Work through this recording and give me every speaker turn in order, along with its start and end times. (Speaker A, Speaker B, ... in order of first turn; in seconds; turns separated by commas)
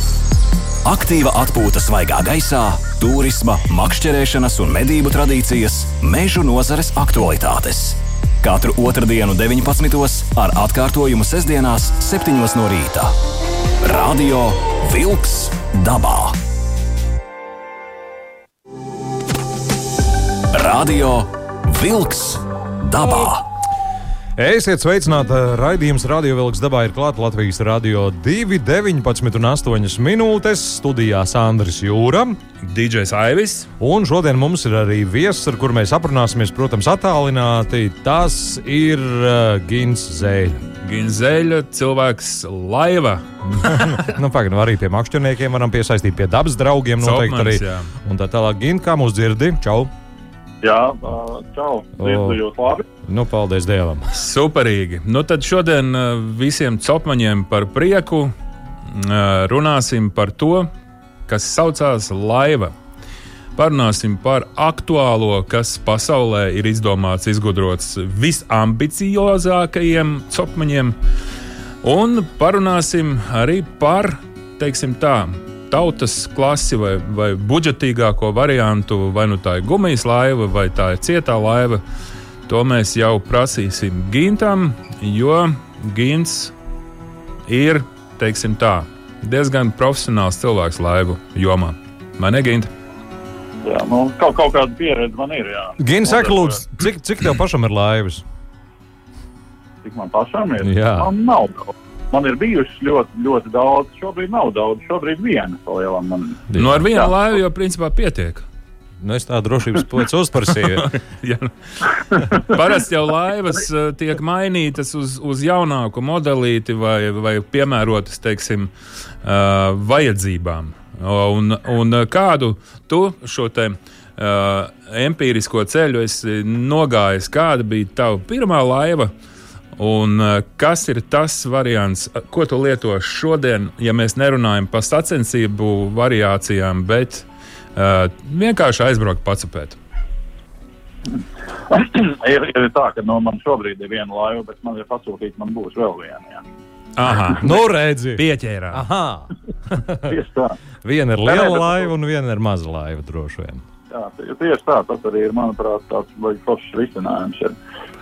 Speaker A: 0.8-13.1, Speaker A: 13.8-16.4, Speaker A: 20.5-23.4, Speaker B: 24.4-32.4, Speaker C: 32.6-33.7, Speaker B: 33.8-40.6, Speaker C: 40.8-44.0, Speaker B: 43.6-49.9, Speaker C: 47.0-47.9, Speaker D: 50.6-52.9, Speaker B: 52.0-52.4, Speaker B: 53.0-54.1, Speaker C: 54.1-58.3, Speaker C: 58.9-60.7, Speaker C: 61.3-62.7, Speaker C: 63.6-71.0, Speaker C: 71.8-81.8, Speaker C: 82.5-86.5, Speaker C: 87.5-92.7, Speaker D: 93.6-96.6, Speaker B: 95.8-98.2, Speaker D: 99.8-107.1, Speaker B: 100.6-101.1, Speaker B: 106.5-106.8, Speaker C: 106.5-108.5, Speaker B: 109.0-110.9, Speaker C: 110.6-118.7, Speaker C: 119.2-129.1, Speaker C: 129.8-139.8, Speaker D: 141.7-146.4, Speaker C: 147.0-147.5, Speaker B: 147.4-150.2, Speaker C: 148.2-148.8, Speaker D: 150.1-150.6, Speaker B: 150.8-153.6, Speaker D: 151.3-151.9, Speaker D: 153.9-157.6